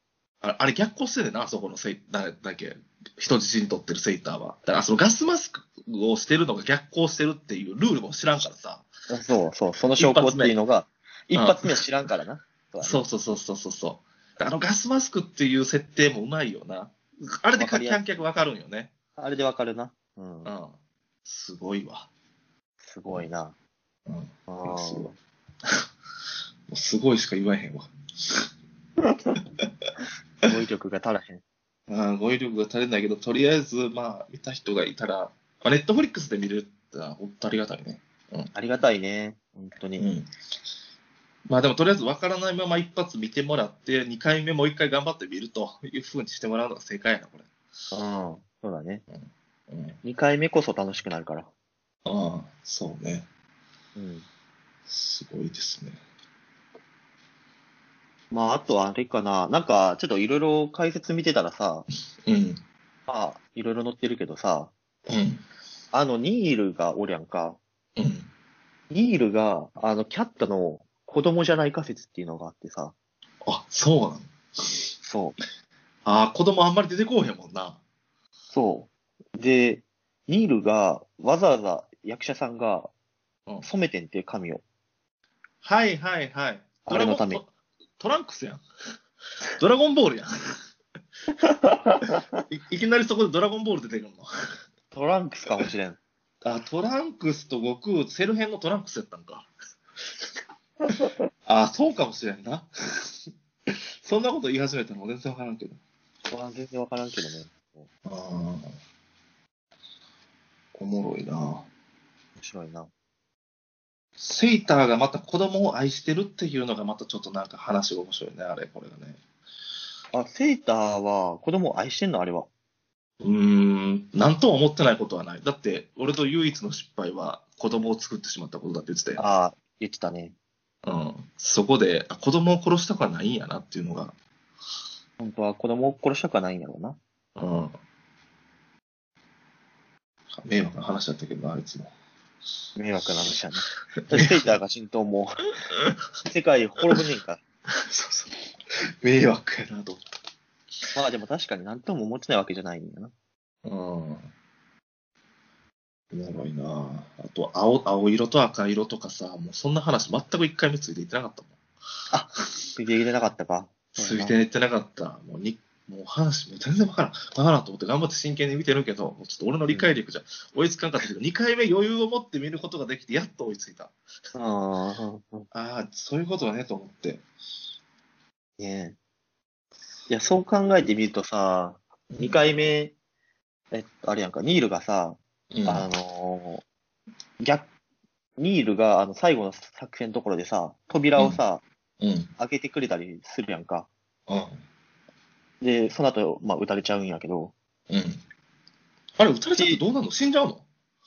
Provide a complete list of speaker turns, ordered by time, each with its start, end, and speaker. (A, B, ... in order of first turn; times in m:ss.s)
0:00.4-0:08.9 A
0:09.1-0:13.0 B
0:10.0-0:10.6 A
0:11.3-0:11.7 A
0:12.8-0:18.9 A
0:17.6-0:18.0 B
0:19.2-0:20.5 B
0:20.4-0:22.1 A
0:22.8-0:23.6 B
0:24.1-0:25.1 A
0:24.5-0:25.2 B
0:26.7-0:28.5 A
0:30.4-0:31.4 B
0:31.9-0:38.5 A
0:38.5-0:40.1 B
0:40.0-0:40.3 A
0:41.5-0:47.5 A
0:47.9-0:49.0 B
0:49.1-0:50.0 A
0:50.0-0:51.5 B
0:52.0-0:53.3 A
0:54.0-0:54.3 B
0:54.9-0:56.0 A
0:58.3-1:01.9 B
1:02.2-1:02.6 A
1:03.1-1:04.7 B
1:05.1-1:05.4 A
1:05.9-1:07.6 B
1:08.0-1:08.3 A
1:08.9-1:12.9 B
1:13.4-1:14.8 A
1:15.0-1:15.4 B
1:16.0-1:17.8 A
1:18.5-1:22.9 B
1:23.6-1:24.6 B
1:25.6-1:27.5 A
1:26.8-1:27.4 B
1:28.0-1:28.6 A
1:29.5-1:30.3 A
1:31.4-1:32.3 B
1:32.5-1:34.3 A
1:34.9-1:36.0 B
1:36.4-1:39.5 A
1:41.5-1:45.8 A
1:46.3-1:47.9 B
1:48.0-1:48.8 A
1:50.8-1:51.7 A
1:52.4-1:52.9 B
1:54.2-1:59.2 A
2:00.1-2:02.5 B
2:03.2-2:09.2 A
2:09.2-2:10.4 B
2:10.8-2:14.1 A
2:15.2-2:17.0 B
2:17.4-2:17.8 A
2:20.3-2:21.9 A
2:22.8-2:25.5 B
2:24.1-2:24.5 A
2:26.2-2:27.4 B
2:27.7-2:30.0 A
2:31.0-2:33.1 B
2:33.6-2:34.3 A
2:36.1-2:41.6 A
2:42.1-2:44.4 B
2:44.0-2:53.9 A
2:49.7-2:50.0 B
2:54.4-2:55.5 B
2:55.5-2:57.2 A
2:58.6-2:59.0 B
3:00.1-3:02.9 B
3:02.1-3:02.4 A
3:03.7-3:06.6 B
3:05.5-3:05.9 A
3:07.4-3:07.7 B
3:08.4-3:11.6 B
3:12.0-3:12.3 A
3:12.4-3:13.9 B
3:14.3-3:14.6 A
3:15.6-3:17.5 B
3:17.9-3:18.2 A
3:19.2-3:20.7 A
3:19.6-3:19.8 B